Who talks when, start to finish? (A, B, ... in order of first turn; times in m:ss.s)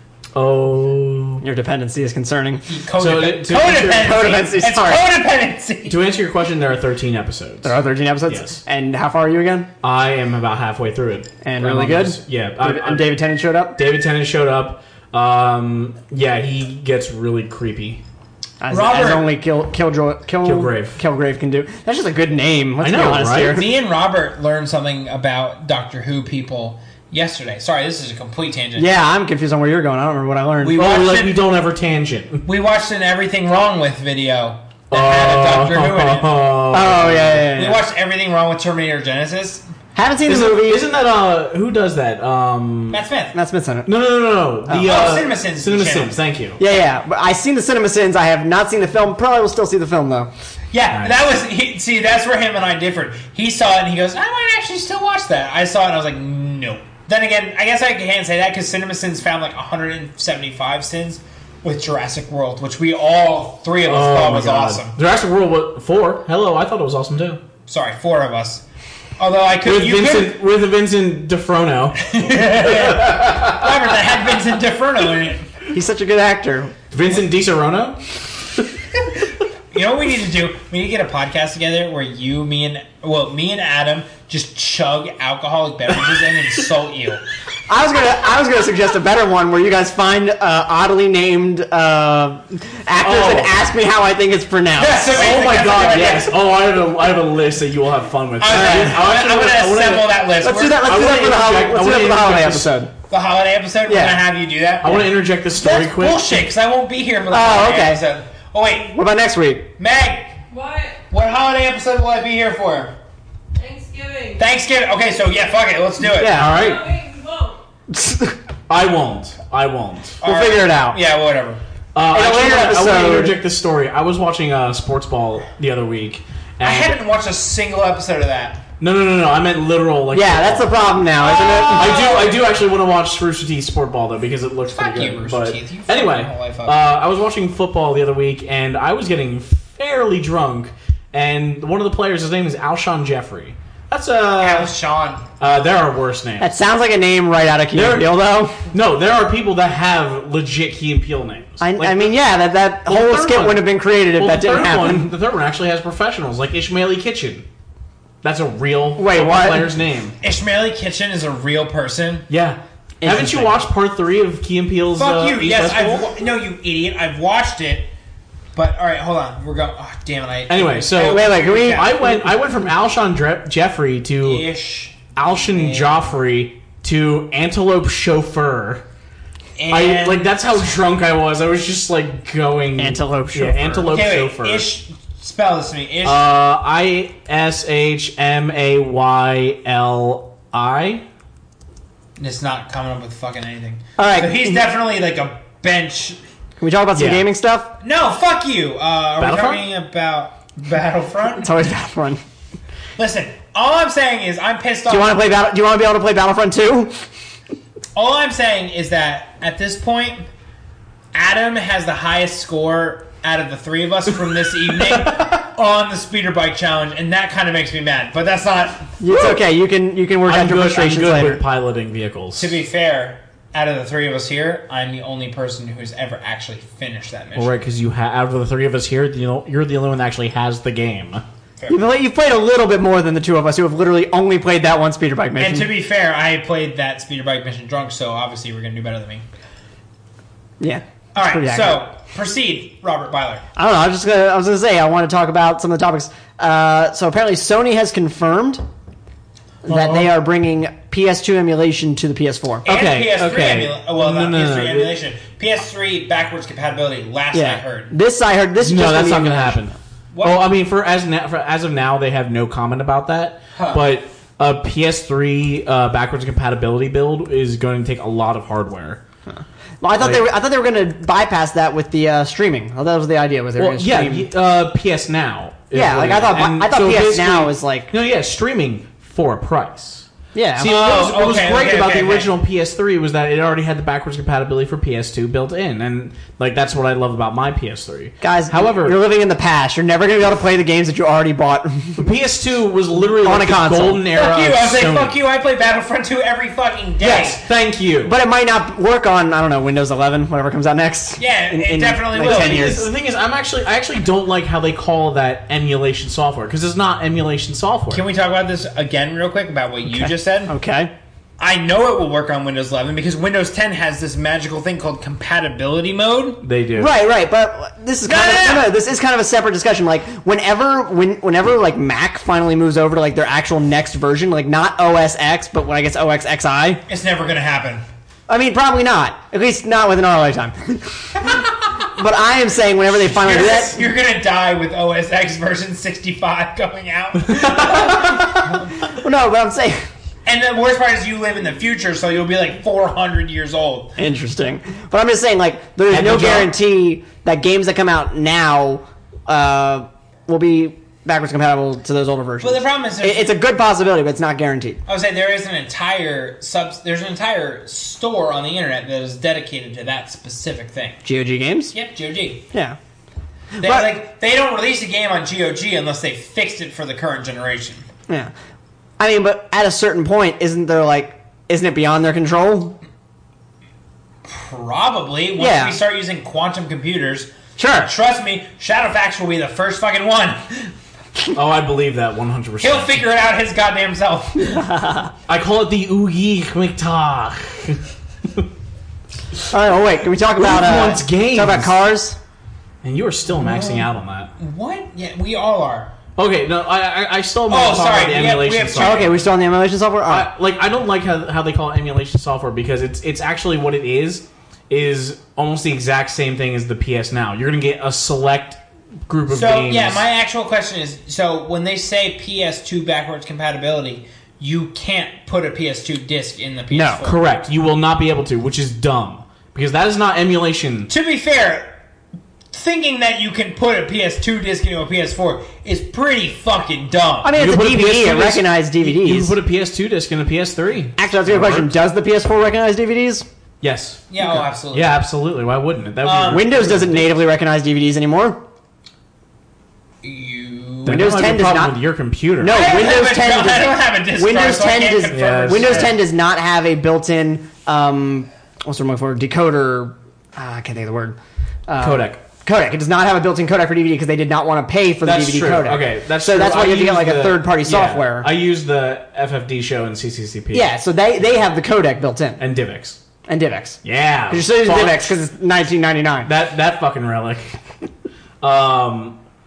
0:00.3-0:01.4 A
0:01.4-0:02.6 B
0:02.7-0:06.0 C
0:03.0-0:04.2 A
0:03.8-0:05.0 B
0:05.9-0:08.6 A
0:07.6-0:09.7 B
0:09.8-0:13.2 A
0:11.4-0:13.8 B
0:13.8-0:18.0 A
0:18.6-0:23.7 B
0:18.7-0:19.3 C
0:20.4-0:21.0 A
0:22.8-0:23.6 A
0:23.5-0:28.9 C
0:28.8-0:30.8 B
0:30.6-0:31.4 C
0:30.7-0:32.5 A
0:32.4-0:36.3 C
0:34.9-0:37.4 A
0:36.7-0:37.8 B
0:37.5-0:39.6 C
0:39.9-0:40.8 B
0:40.2-0:43.0 A
0:42.9-0:43.3 C
0:43.3-0:43.9 B
0:43.8-0:46.6 A
0:44.7-0:44.9 B
0:44.7-0:46.2 C
0:46.6-0:50.3 B
0:50.7-1:05.0 C
0:50.9-0:51.2 A
1:03.8-1:07.4 A
1:07.7-1:08.6 C
1:09.2-1:10.4 C
1:09.6-1:13.8 A
1:12.0-1:15.5 C
1:15.7-1:16.8 B
1:16.9-1:18.0 A
1:19.7-1:27.2 C
1:27.7-1:35.5 B
1:33.0-1:33.5 A
1:34.8-1:36.3 C
1:35.1-1:42.7 A
1:38.4-1:40.9 C
1:38.5-1:39.0 B
1:40.4-1:42.9 B
1:43.1-1:45.0 C
1:43.9-1:44.2 B
1:44.8-1:46.5 A
1:45.6-1:45.9 B
1:45.7-1:48.9 C
1:47.3-1:48.0 B
1:48.9-1:49.7 B
1:49.8-1:50.4 C
1:50.5-1:51.0 D
1:51.1-1:52.9 C
1:53.5-1:54.4 D
1:54.4-1:56.4 C
1:56.0-1:56.6 B
1:56.3-1:56.9 A
1:56.4-1:57.6 D
1:57.9-1:58.4 B
1:58.7-2:00.2 A
2:00.2-2:01.6 C
2:00.2-2:01.0 B
2:01.9-2:07.0 A
2:02.1-2:03.4 B
2:06.6-2:08.6 C
2:08.8-2:10.7 A
2:10.1-2:12.1 B
2:11.2-2:12.4 C
2:11.6-2:24.7 A
2:14.7-2:16.8 C
2:24.4-2:25.2 C
2:25.4-2:26.5 A
2:26.4-2:28.6 B
2:27.7-2:28.2 A
2:28.7-2:32.1 A
2:31.6-2:35.1 B
2:32.8-2:37.4 A
2:38.2-2:40.2 A
2:39.0-2:39.7 B
2:40.2-2:42.3 C
2:42.3-2:46.1 A
2:43.0-2:43.6 B
2:45.0-2:47.9 C
2:48.6-2:52.0 C
2:50.5-2:54.4 A
2:51.0-2:52.3 B
2:54.2-2:56.1 C
2:55.1-2:58.8 A
2:59.6-3:00.4 C
2:59.7-3:04.7 A
3:02.8-3:03.9 B
3:03.9-3:06.2 C
3:06.0-3:11.0 A
3:12.2-3:16.2 C
3:14.0-3:14.6 B
3:16.6-3:17.7 B
3:16.9-3:17.2 A
3:17.8-3:21.5 C
3:19.2-3:19.7 A
3:21.4-3:22.2 B
3:23.0-3:25.2 C
3:24.9-3:26.9 B
3:27.9-3:30.2 C
3:31.1-3:39.0 C
3:35.0-3:35.2 A
3:39.0-3:41.4 B
3:40.2-3:42.6 A
3:42.4-3:47.5 C
3:47.4-3:51.2 A
3:51.7-3:55.7 B
3:55.4-3:59.2 C
4:00.6-4:01.8 B
4:01.1-4:03.4 C
4:03.6-4:08.6 B
4:09.6-4:12.6 B
4:09.6-4:10.1 C
4:12.6-4:17.9 C
4:12.6-4:14.9 A
4:17.3-4:19.6 B
4:18.6-4:29.0 A
4:20.1-4:20.4 C
4:23.5-4:23.8 C
4:29.3-4:34.3 B
4:30.0-4:30.2 A
4:33.6-4:49.0 A
4:35.7-4:37.9 B
4:40.3-4:40.8 B
4:40.6-4:42.3 C
4:48.2-4:52.0 B
4:52.0-4:55.2 A
4:53.2-4:54.1 B
4:54.1-4:57.4 C
4:57.0-4:58.1 A
4:58.0-5:02.9 B
5:01.2-5:02.8 C
5:02.2-5:08.0 A
5:07.9-5:10.5 C
5:09.9-5:10.9 B
5:11.4-5:16.4 C
5:16.4-5:16.9 A
5:16.8-5:26.8 B
5:18.0-5:18.7 C
5:26.9-5:27.8 C
5:28.3-5:33.8 B
5:33.0-5:38.6 C
5:37.3-5:38.2 A
5:37.6-5:39.9 B
5:40.2-5:44.0 C
5:44.0-5:54.8 B
5:45.9-5:46.5 A
5:52.4-5:53.3 C
5:54.9-6:01.0 C
6:01.0-6:01.7 B
6:01.7-6:02.4 C
6:02.5-6:02.8 B
6:03.6-6:03.9 B
6:03.6-6:07.9 C
6:09.0-6:12.8 B
6:14.2-6:20.7 C
6:15.4-6:15.8 B
6:17.6-6:17.9 B
6:21.3-6:23.0 A
6:22.6-6:24.7 C
6:24.5-6:25.1 B
6:25.3-6:27.8 A
6:29.5-6:32.2 B
6:30.4-6:31.7 A
6:32.8-6:34.3 A
6:33.3-6:35.9 C
6:36.2-6:39.1 A
6:37.5-6:39.1 C
6:38.7-6:40.3 B
6:40.1-6:50.0 A
6:49.3-6:57.2 C
6:56.7-6:57.0 B
6:57.0-7:00.9 A
7:00.9-7:01.8 C
7:02.5-7:07.3 C
7:07.2-7:09.4 B
7:07.3-7:11.7 A
7:11.0-7:13.2 B
7:13.6-7:17.2 A
7:14.1-7:15.0 C
7:16.0-7:16.4 C
7:16.3-7:18.4 B
7:20.0-7:21.0 C
7:20.8-7:22.7 A
7:20.8-7:21.8 B
7:22.4-7:38.3 B
7:22.5-7:25.9 C
7:25.1-7:25.9 A
7:31.8-7:32.2 A
7:35.0-7:40.7 A
7:40.5-7:42.4 B
7:42.4-7:43.0 A
7:43.3-7:46.3 B
7:43.8-7:45.1 A
7:46.2-7:47.5 A
7:48.4-7:49.2 A